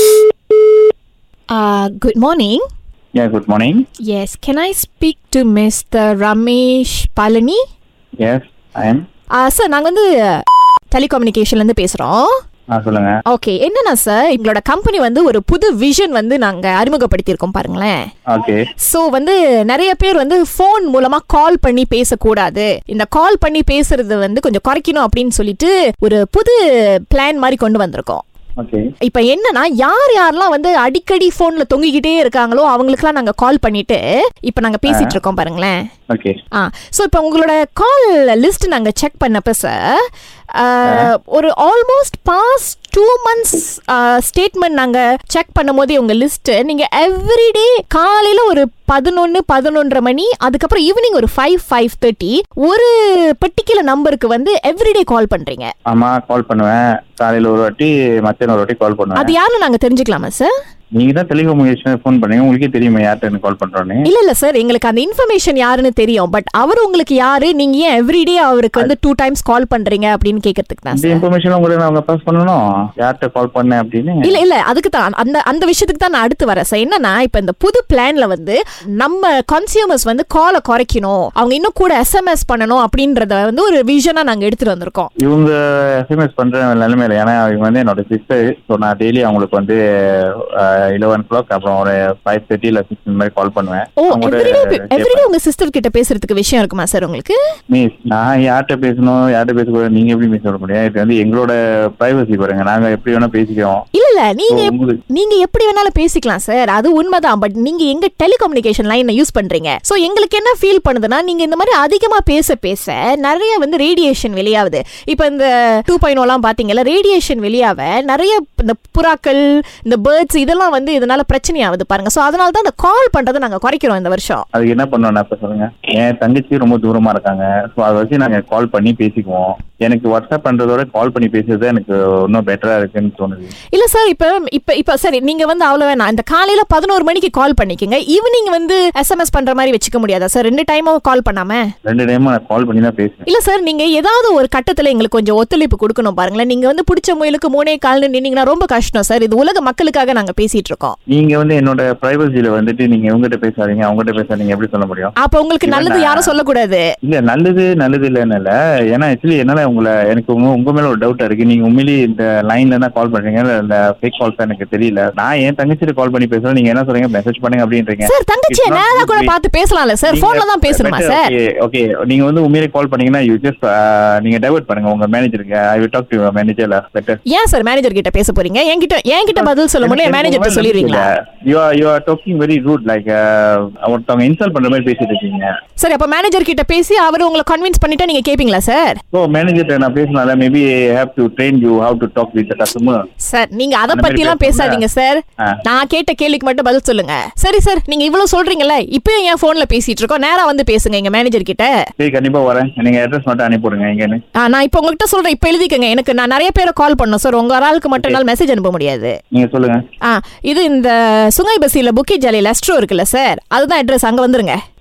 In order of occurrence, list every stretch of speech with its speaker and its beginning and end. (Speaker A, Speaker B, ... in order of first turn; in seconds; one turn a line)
Speaker A: 1.5-2.6
Speaker B: 3.2-3.8
Speaker A: 4.1-7.6
Speaker B: 8.2-9.0
Speaker A: 9.4-10.4
Speaker A: 10.9-12.3
Speaker B: 12.7-13.2
Speaker A: 13.3-18.0
Speaker B: 18.3-18.7
Speaker A: 18.8-26.6
Speaker A: 27.1-28.2
Speaker B: 28.6-28.9
Speaker A: 29.1-35.8
Speaker B: 34.9-35.2
Speaker B: 36.1-36.4
Speaker A: 36.6-40.0
Speaker A: 40.5-55.7
Speaker B: 40.9-41.1
Speaker B: 55.9-59.3
Speaker A: 59.2-60.5
Speaker B: 61.0-64.1
Speaker A: 64.0-71.2
Speaker B: 70.9-74.4
Speaker A: 74.2-85.1
Speaker B: 85.2-95.3
Speaker A: 94.0-97.4
Speaker B: 97.7-103.8
Speaker A: 104.0-124.5
Speaker B: 104.5-105.0
Speaker B: 124.5-133.5
Speaker A: 133.7-141.6
Speaker B: 141.8-143.3
Speaker A: 143.3-151.0
Speaker B: 151.1-156.4
Speaker A: 155.2-156.8
Speaker B: 157.0-169.3
Speaker A: 168.1-171.3
Speaker B: 170.1-177.2
Speaker A: 177.3-181.1
Speaker B: 179.3-185.5
Speaker A: 185.8-189.0
Speaker B: 189.1-193.1
Speaker A: 193.2-201.7
Speaker B: 193.9-194.8
Speaker B: 202.0-204.2
Speaker A: 204.4-209.2
Speaker B: 209.3-209.8
Speaker A: 210.0-214.6